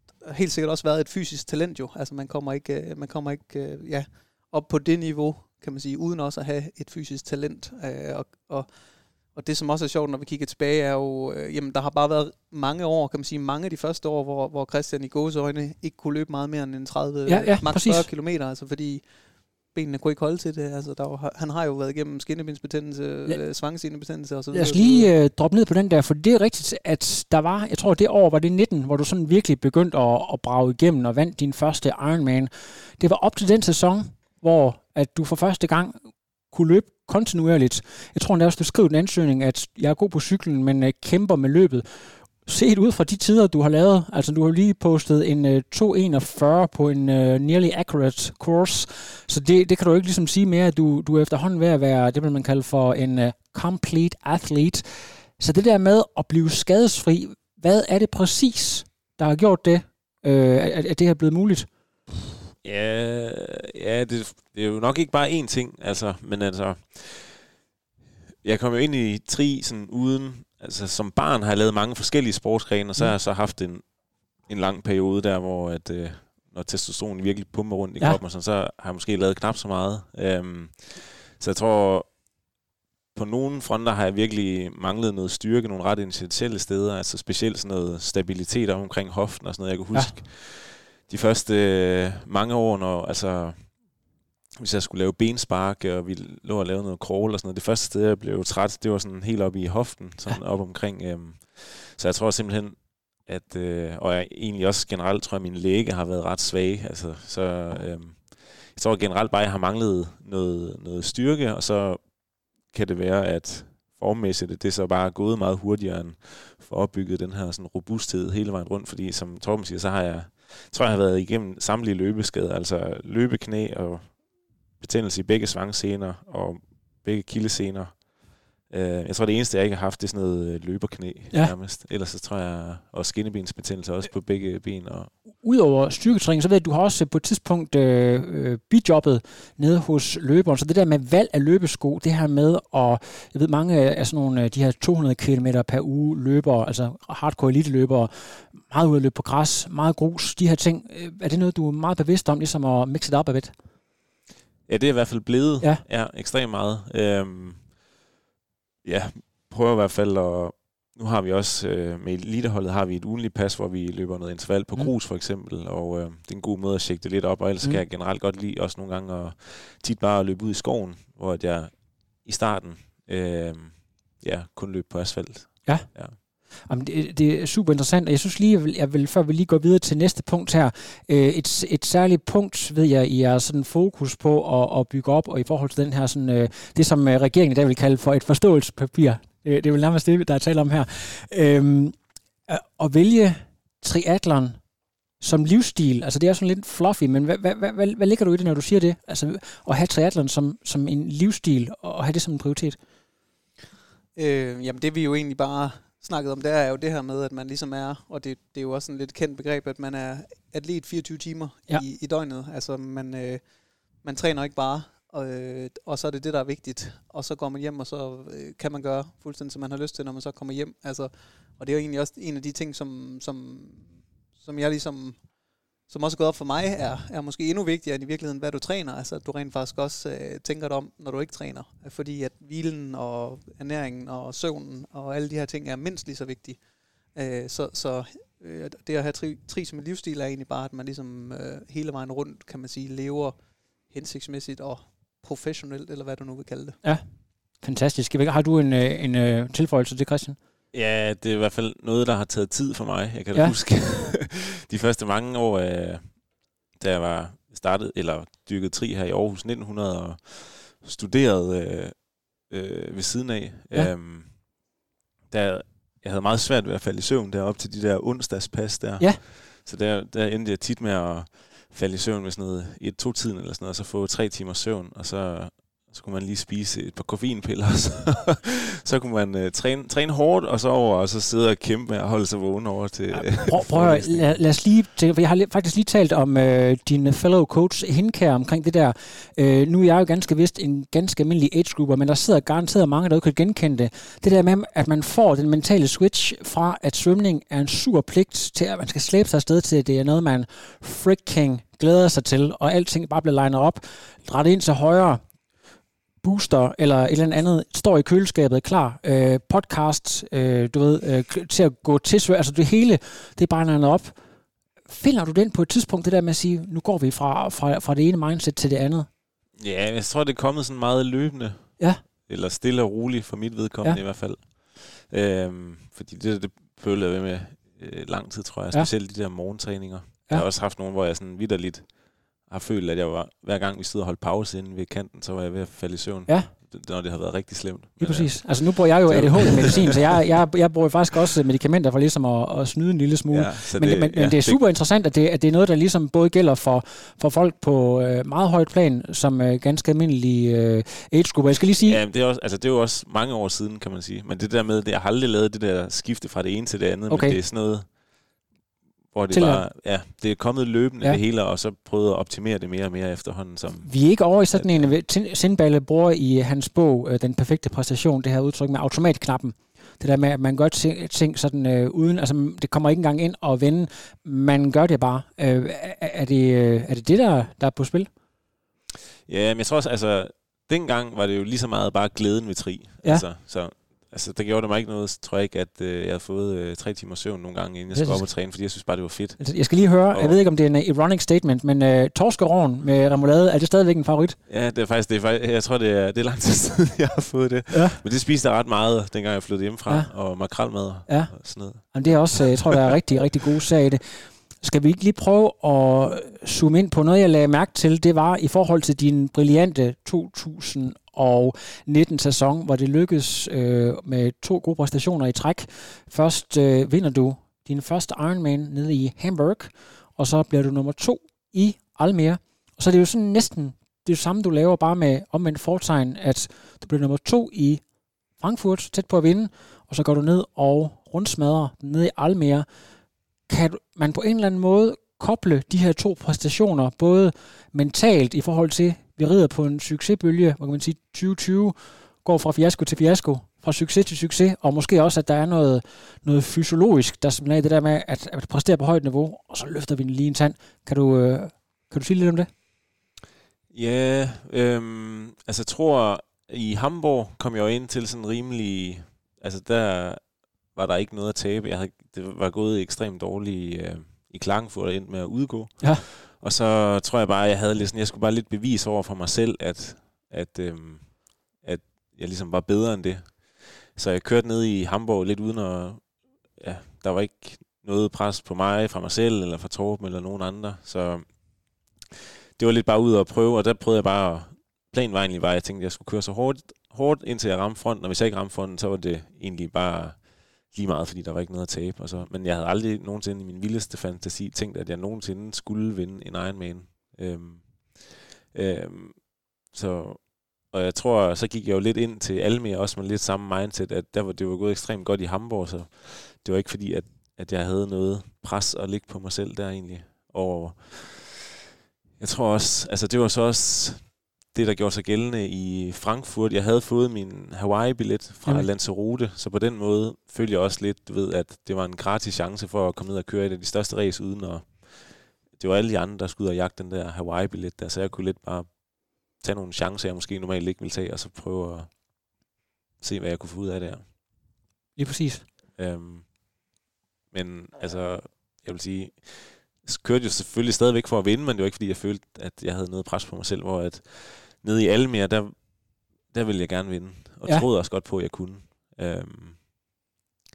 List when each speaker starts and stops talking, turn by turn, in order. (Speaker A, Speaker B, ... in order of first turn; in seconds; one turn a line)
Speaker A: 0.2-19.0
Speaker B: 17.3-18.1
Speaker A: 19.7-25.1
Speaker B: 24.5-61.7
Speaker C: 62.6-67.5
Speaker C: 68.4-73.9
Speaker C: 74.5-82.1
Speaker C: 83.1-93.8
Speaker C: 94.6-112.0
Speaker C: 112.7-124.2
Speaker C: 124.8-128.1
Speaker C: 128.6-135.1
Speaker B: 135.3-153.5
Speaker C: 154.7-157.7
Speaker C: 158.8-176.2
Speaker B: 175.6-191.9
Speaker B: 192.5-194.6
Speaker B: 195.2-202.8
Speaker A: 204.2-213.4
Speaker A: 214.0-225.2
Speaker A: 225.9-236.6
Speaker A: 237.1-243.4
Speaker A: 243.9-246.8
Speaker B: 247.6-250.4
Speaker C: 250.7-264.5
Speaker C: 265.3-284.4
Speaker B: 283.1-305.2
Speaker B: 306.2-314.1
Speaker B: 314.9-319.1
Speaker C: 319.6-340.1
Speaker B: 338.0-352.0
Speaker C: 343.3-344.6
Speaker C: 351.8-358.0
Speaker B: 357.1-357.4
Speaker C: 359.1-363.9
Speaker B: 359.3-359.6
Speaker B: 363.9-378.1
Speaker C: 364.5-364.9
Speaker C: 379.2-390.4
Speaker B: 387.9-388.2
Speaker B: 389.4-394.4
Speaker C: 394.5-402.8
Speaker B: 397.7-398.0
Speaker B: 399.9-427.8
Speaker B: 428.4-432.7
Speaker B: 433.5-452.5
Speaker C: 453.7-481.7
Speaker C: 482.6-511.4
Speaker C: 512.2-532.0
Speaker C: 533.0-534.1
Speaker B: 535.0-535.5
Speaker C: 535.8-536.4
Speaker C: 537.3-549.6